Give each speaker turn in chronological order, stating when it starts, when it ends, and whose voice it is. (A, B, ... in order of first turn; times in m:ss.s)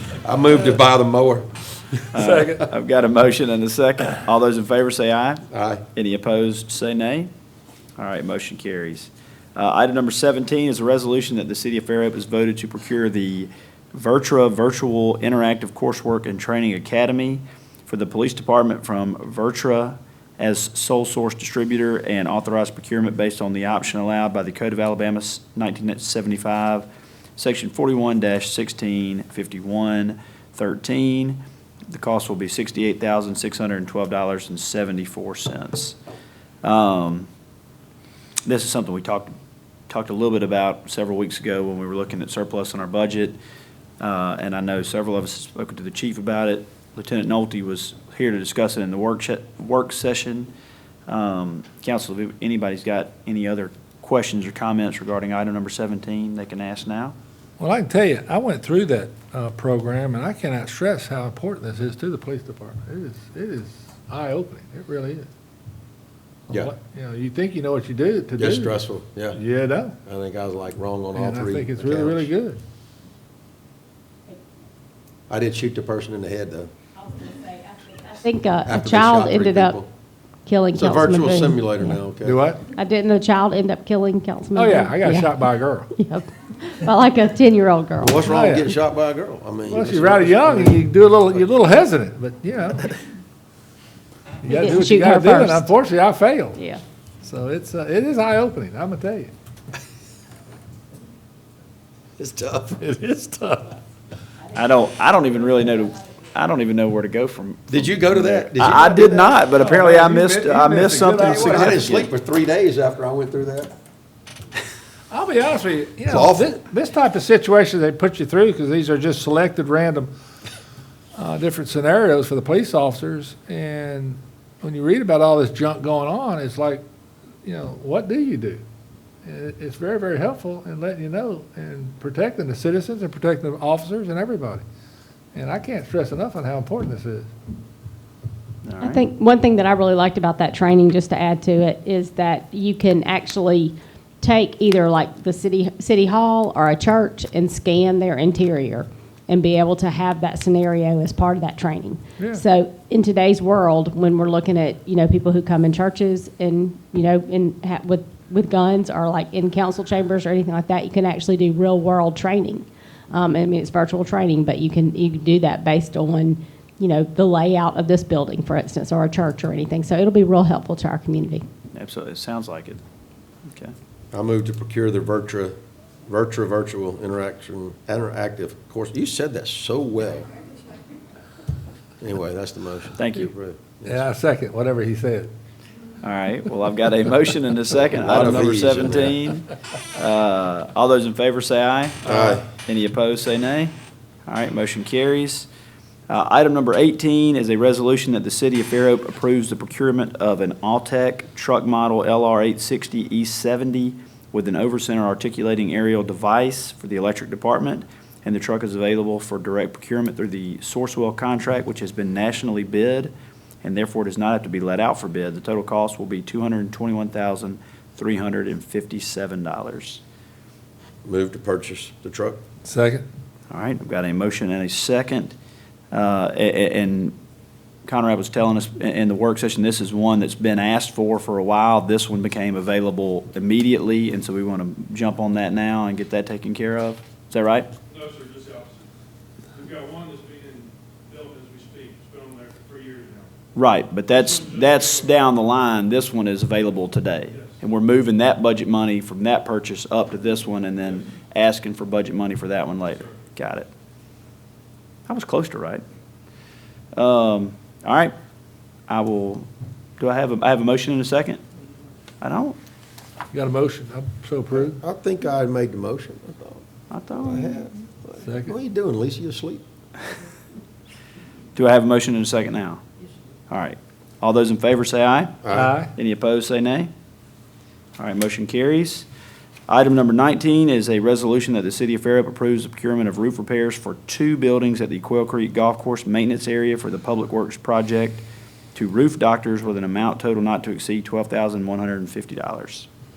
0:00.2-0:01.5 A
0:02.1-0:05.4 B
0:02.2-0:02.7 C
0:05.5-0:05.8 A
0:06.0-0:07.3 B
0:08.0-0:26.9 B
0:27.4-0:36.0 B
0:36.6-0:37.3 B
0:38.5-0:39.3 B
0:39.9-0:43.4 B
0:44.0-0:50.5 B
0:51.1-0:57.2 B
0:57.6-1:05.3 C
1:06.5-1:08.8 C
1:08.4-1:09.4 A
1:09.3-1:10.0 C
1:10.0-1:12.3 A
1:11.2-1:12.6 C
1:15.3-1:16.7 A
1:18.0-1:19.8 D
1:18.6-1:19.9 A
1:20.5-1:21.9 D
1:20.7-1:22.4 A
1:22.2-1:22.6 C
1:22.7-1:25.3 D
1:24.5-1:26.0 C
1:26.0-1:28.3 D
1:28.0-1:30.9 A
1:28.2-1:28.7 C
1:29.7-1:32.9 C
1:34.4-1:36.6 C
1:34.5-1:35.7 D
1:36.6-1:36.8 D
1:37.2-1:39.3 C
1:42.2-1:42.8 A
1:42.8-1:43.8 C
1:44.5-1:52.1 B
1:47.7-1:49.5 A
1:49.5-1:51.8 C
1:51.0-1:53.7 A
1:55.1-2:00.1 C
1:56.1-1:56.5 A
2:01.1-2:06.8 C
2:07.4-2:08.6 C
2:09.2-2:14.6 C
2:15.3-2:17.3 C
2:18.6-2:19.0 B
2:18.8-2:51.4 D
2:32.2-2:32.4 C
2:51.7-2:52.8 B
2:53.5-2:53.7 B
2:54.1-2:55.6 A
2:56.1-3:00.3 A
3:02.0-3:04.0 A
3:03.0-3:03.3 B
3:03.9-3:05.3 C
3:06.0-3:13.7 B
3:07.9-3:09.2 A
3:12.0-3:12.4 A
3:14.3-3:15.5 B
3:16.1-3:40.0 B
3:41.0-3:42.4 A
3:42.6-3:43.0 C
3:43.5-3:45.3 B
3:45.9-3:47.2 B
3:47.9-3:57.7 B
3:58.0-3:58.8 E
3:59.6-4:03.2 E
4:03.6-4:13.7 B
4:04.4-4:04.7 E
4:15.1-4:15.8 B
4:17.0-4:18.1 B
4:18.9-4:19.5 B
4:20.0-4:21.4 B
4:22.2-4:22.6 B
4:23.3-4:24.8 C
4:24.5-4:26.6 A
4:26.9-4:27.6 B
4:27.2-4:29.6 A
4:28.2-4:28.5 C
4:31.6-4:32.8 B
4:33.5-4:35.4 B
4:35.4-4:35.7 A
4:35.5-4:35.9 C
4:36.0-4:36.9 B
4:38.0-4:39.1 B
4:39.7-4:52.9 B